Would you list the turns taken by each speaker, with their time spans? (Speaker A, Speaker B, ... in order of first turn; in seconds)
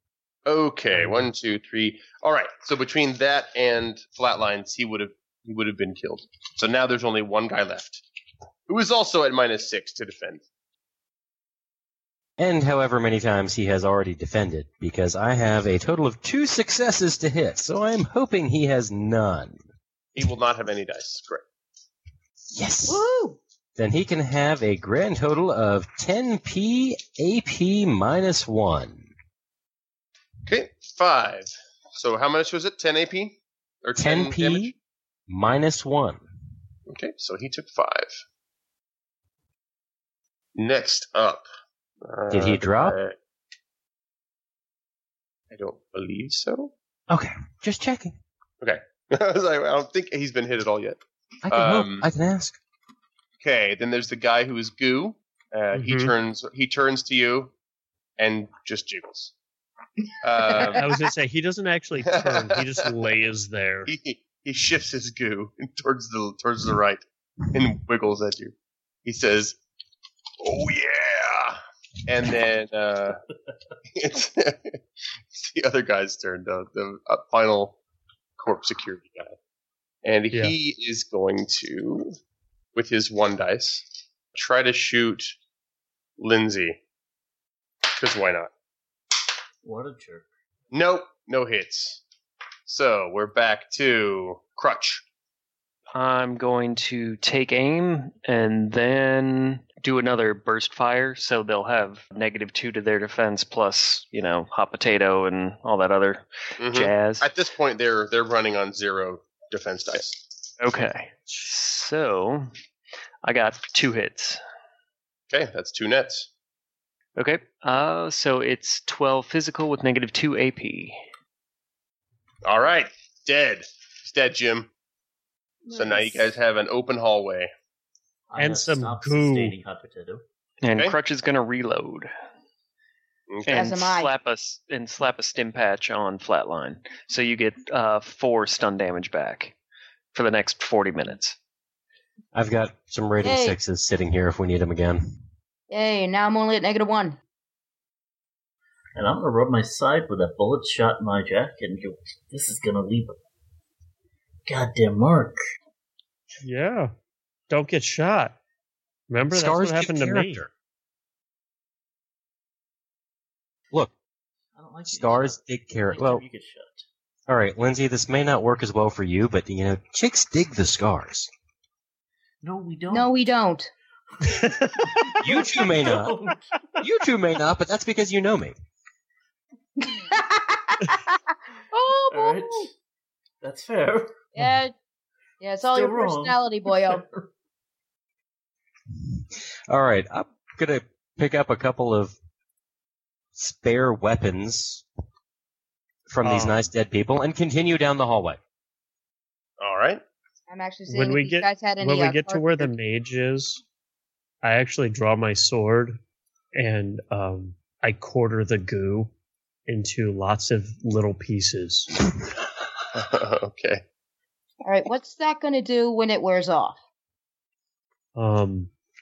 Speaker A: 0.4-8.0, 8.7-10.4, 20.1-21.4, 30.4-34.7, 36.9-38.2, 40.5-41.5, 42.0-43.1, 45.5-46.7, 48.6-52.1, 53.4-57.5, 58.2-59.3, 60.2-60.9, 62.0-62.9, 63.9-68.5, 69.0-69.6, 70.4-73.2, 73.9-74.8, 75.3-77.8, 78.4-79.3, 80.0-82.2, 82.7-85.3, 86.2-86.8, 88.0-88.5, 90.7-92.0, 92.7-95.0, 106.6-110.2, 115.3-116.3, 122.4-124.7, 125.7-127.5, 133.3-133.6, 199.6-200.0, 212.9-213.8
Speaker B: 12.4-19.6, 22.5-23.0, 23.8-29.1, 34.0-34.7, 35.3-36.2, 42.3-43.0, 47.1-48.2, 51.4-52.6, 142.3-145.0, 159.3-160.5, 164.9-166.2, 167.3-171.3, 175.2-176.2, 176.8-178.5, 189.7-192.1, 193.3-194.8, 196.1-198.4
Speaker C: 22.9-23.4, 125.7-126.2, 133.5-134.1, 143.2-143.6, 145.7-147.2, 172.9-173.7, 179.8-182.7, 184.3-184.7, 185.4-187.0, 200.5-202.7, 214.6-216.8
Speaker D: 55.7-56.1, 60.6-63.9, 128.4-129.6, 156.4-156.9, 157.5-158.4, 159.1-160.4, 174.2-175.2, 196.2-196.6, 200.9-203.6, 204.4-206.0, 206.5-209.1, 209.7-212.0, 218.2-218.7
Speaker E: 89.6-90.3, 128.3-130.2, 148.9-153.2, 154.4-155.4, 164.5-166.8, 172.4-173.1, 174.7-176.8, 182.1-182.7, 183.4-184.3, 185.7-187.2
Speaker F: 95.9-107.3, 110.6-112.5, 113.2-114.4, 117.2-121.0, 130.6-132.1, 133.5-139.5, 140.1-141.3